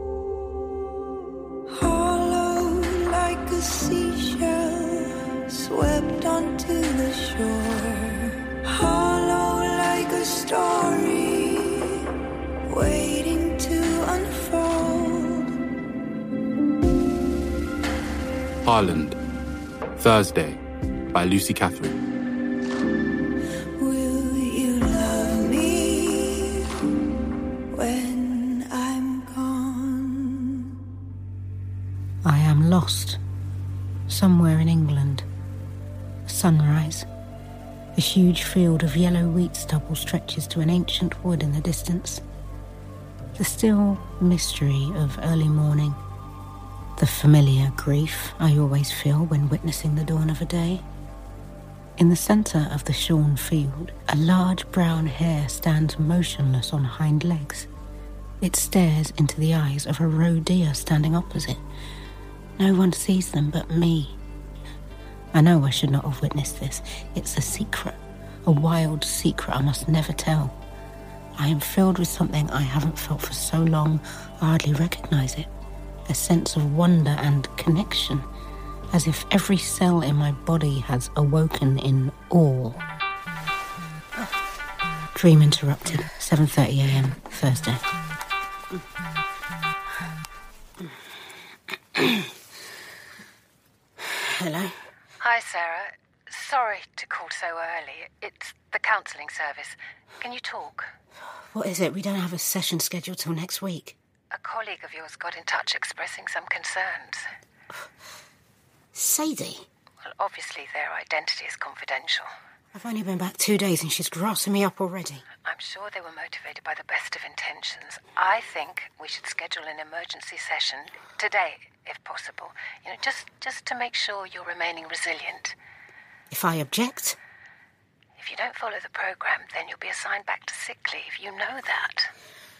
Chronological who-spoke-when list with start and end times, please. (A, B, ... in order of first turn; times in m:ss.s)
0:01.7-0:12.0 A
0:12.7-0:15.5 A
0:18.6-0:19.2 B
0:20.0-0:20.6 B
0:21.1-0:22.0 B
0:23.8-0:26.7 A
0:27.7-0:30.7 A
0:32.2-0:33.2 C
0:34.1-0:35.2 C
0:36.2-0:37.1 C
0:37.9-0:42.2 C
0:43.4-0:46.0 C
0:47.0-0:50.8 C
0:52.0-0:57.7 C
0:58.4-1:01.6 C
1:02.6-1:04.2 C
1:05.3-1:10.5 C
1:11.4-1:15.5 C
1:16.1-1:18.2 C
1:18.9-1:22.8 C
1:25.1-1:27.8 C
1:31.9-1:32.3 C
1:34.0-1:34.7 C
1:35.2-1:40.9 D
1:41.5-1:44.0 C
1:44.3-1:47.2 D
1:48.9-1:49.6 C
1:50.0-1:52.3 D
1:52.7-1:55.2 C
1:55.4-2:05.6 D
2:06.3-2:07.2 C
2:08.2-2:12.1 D